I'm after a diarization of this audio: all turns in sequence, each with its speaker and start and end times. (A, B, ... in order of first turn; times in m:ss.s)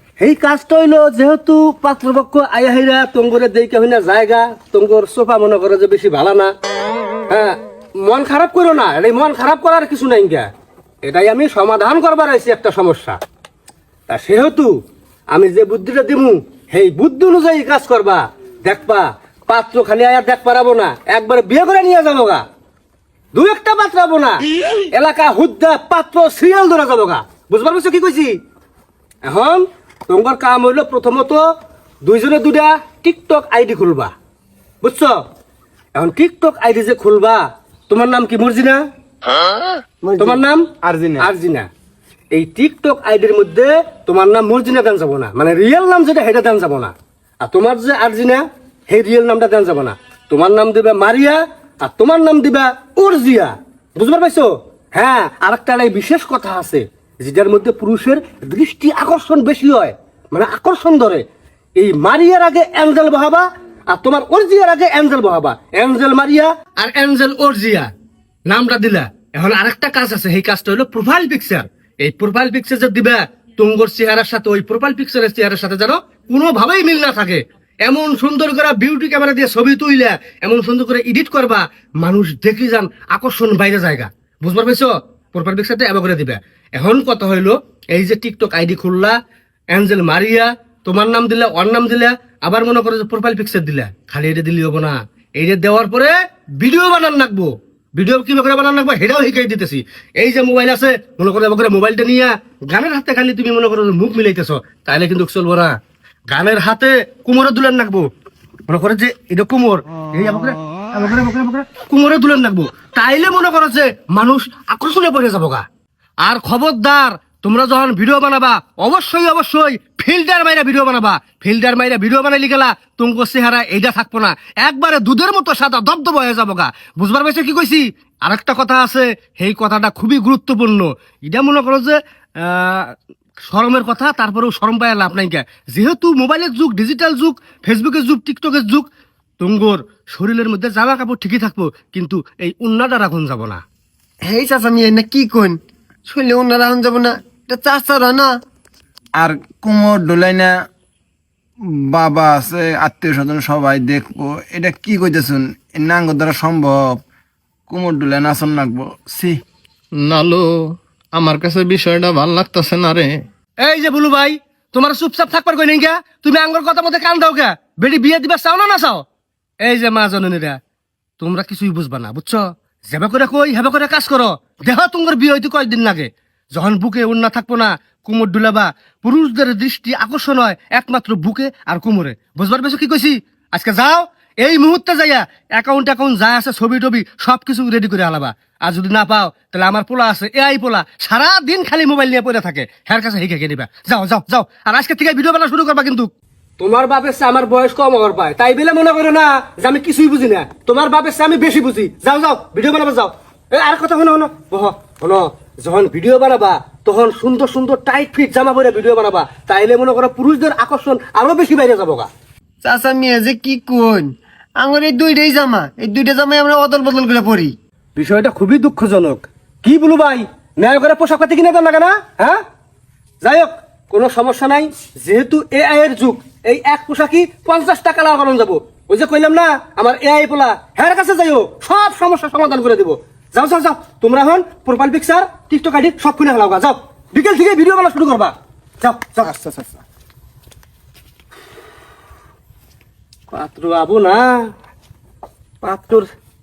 0:00.2-0:06.5 A
0:07.3-0:10.5 A
0:11.0-0:13.2 A
0:14.1-0:14.7 A
0:15.3-0:22.4 A
0:23.3-0:28.4 A
0:29.2-0:31.4 A
0:32.0-0:34.1 A
0:34.8-0:35.2 A
0:35.9-0:38.8 A
0:40.0-0:40.4 B
0:40.2-0:40.7 A
0:40.8-0:41.3 C
0:41.2-0:41.7 A
0:42.3-1:01.2 A
1:01.8-1:07.9 A
1:08.4-1:29.2 A
1:29.7-1:45.8 A
1:46.3-1:48.1 A
1:48.7-1:55.6 A
1:56.2-2:12.9 A
2:13.4-2:18.8 A
2:19.4-2:23.6 A
2:24.2-2:28.3 B
2:29.2-2:30.5 C
2:31.9-2:37.0 C
2:37.7-2:39.4 C
2:40.0-2:43.2 D
2:43.6-2:49.0 A
2:49.6-2:50.6 A
2:51.2-3:32.1 A
3:32.6-3:37.5 B
3:38.0-3:42.4 A
3:43.2-3:59.4 A
3:59.4-3:59.6 C
4:03.3-4:04.5 A
4:05.6-4:06.1 A